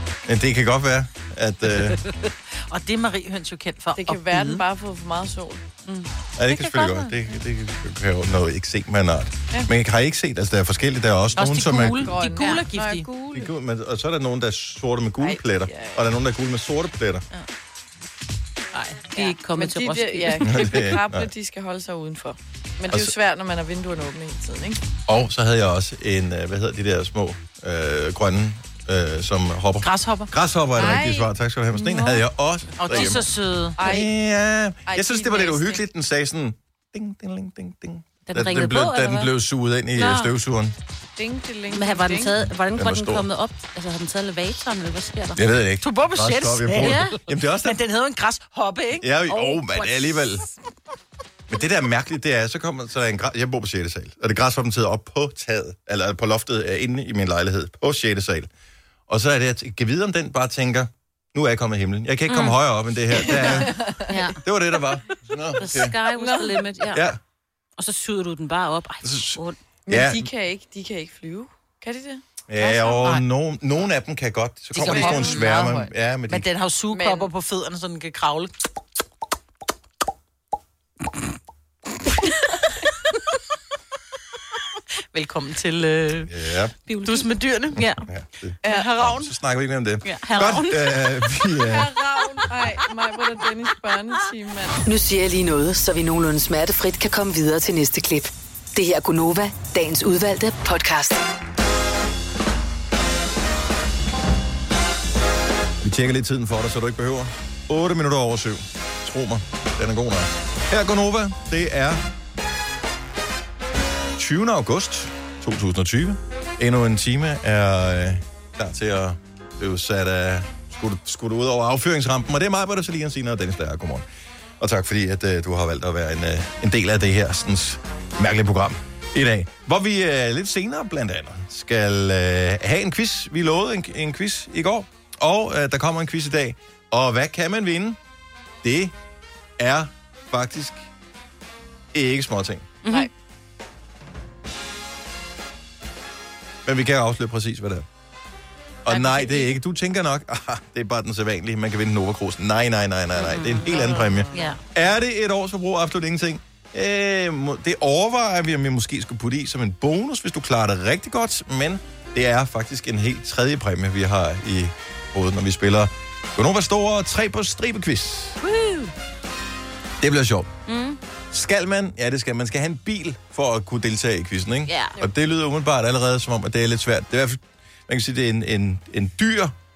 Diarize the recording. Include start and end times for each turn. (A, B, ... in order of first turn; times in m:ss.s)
0:00.3-0:02.0 A
0:02.7-0:04.6 B
0:04.0-0:05.6 C
0:05.9-0:07.1 D
0:06.4-0:12.2 A
0:11.4-0:13.1 B
0:12.0-0:13.3 C
0:12.4-0:12.7 D
0:13.3-0:17.2 A
0:15.2-0:16.0 C
0:18.7-0:20.8 D
0:19.1-0:24.8 C
0:20.4-0:21.3 A
0:22.9-0:23.2 A
0:25.1-0:33.3 A
0:29.8-0:30.3 B
0:30.8-0:31.3 C
0:32.8-0:33.8 B
0:33.8-0:40.8 A
0:33.8-0:34.1 C
0:34.9-0:35.8 C
0:38.3-0:39.3 D
0:40.0-0:40.3 D
0:41.2-0:42.3 C
0:41.7-0:45.4 D
0:42.8-0:43.3 A
0:45.4-0:47.8 A
0:45.8-0:49.3 B
0:46.8-0:47.2 D
0:49.0-0:50.5 A
0:49.4-0:49.9 D
0:51.5-0:58.5 A
0:59.1-1:03.8 A
1:02.3-1:02.6 D
1:03.2-1:04.2 C
1:03.3-1:03.6 D
1:04.1-1:04.4 D
1:04.4-1:06.0 A
1:05.6-1:07.0 D
1:06.2-1:06.6 C
1:06.9-1:07.2 A
1:07.8-1:09.6 D
1:09.0-1:10.3 A
1:09.9-1:12.7 C
1:12.5-1:16.5 A
1:14.7-1:18.5 B
1:14.8-1:15.4 C
1:16.9-1:17.3 C
1:25.1-1:26.3 B
1:26.3-1:26.8 A
1:26.9-1:28.1 D
1:27.0-1:27.8 B
1:27.8-1:31.9 A
1:28.6-1:29.3 B
1:30.0-1:31.0 D
1:31.7-1:34.8 C
1:34.8-1:41.2 E
1:45.8-1:52.0 A
1:54.2-2:04.0 A
2:04.6-2:18.0 A
2:18.6-2:19.0 A
2:19.6-2:20.9 A
2:21.9-2:22.7 A
2:22.8-2:23.1 D
2:26.6-2:27.9 A
2:28.8-2:48.4 A
2:33.2-2:33.8 D
2:34.3-2:34.6 D
2:48.4-2:48.9 D
2:50.0-2:50.5 A
2:50.7-2:51.0 D
2:51.3-2:59.5 A
2:54.7-2:55.0 D